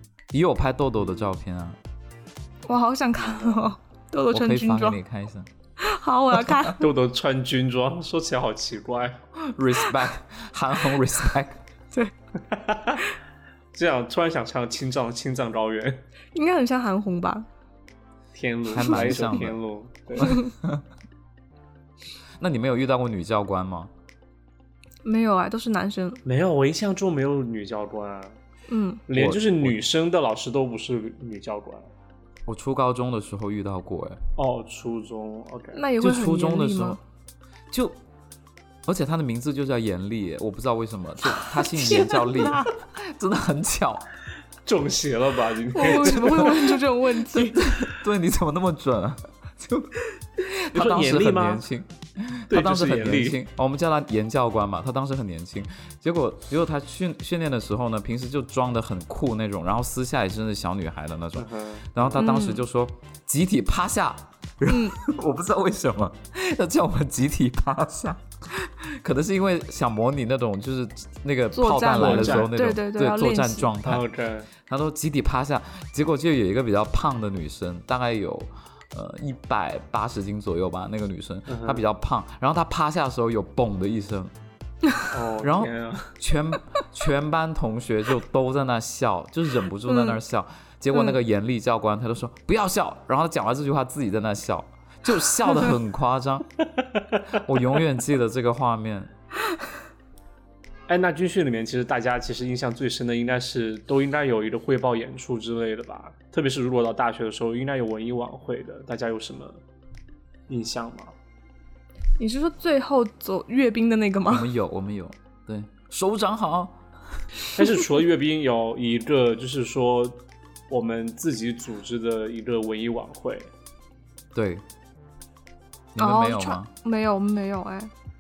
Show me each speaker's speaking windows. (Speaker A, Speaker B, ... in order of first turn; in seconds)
Speaker A: 0.3-1.8, 4.3-5.5, 6.4-6.6, 9.4-11.6, 18.7-19.6, 20.2-20.8, 22.4-23.9, 29.1-29.8, 32.5-34.2, 36.0-37.0, 37.7-38.0, 38.9-44.1, 46.0-46.7, 47.3-74.0, 74.6-84.3, 85.4-96.5, 97.3-99.1, 114.3-116.8, 124.3-124.6, 125.9-126.7
Speaker B: 2.7-5.0, 5.8-6.8, 16.4-17.5, 20.2-20.5, 25.0-26.2, 28.7-29.0, 35.7-37.0, 41.5-42.7, 45.7-47.6, 62.2-62.6, 64.7-65.0, 71.5-73.7, 89.9-90.2, 90.9-91.2, 112.2-114.5, 126.0-127.9
Speaker C: 3.3-3.6, 6.8-9.2, 12.5-13.0, 13.7-16.0, 18.3-20.4, 26.2-28.4, 29.1-31.9, 34.4-35.8, 44.7-46.8, 50.7-51.6, 52.5-53.4, 61.4-62.2, 72.0-72.5, 73.8-74.5, 81.5-81.9, 85.1-86.1, 100.9-109.6, 110.5-111.1, 117.5-123.5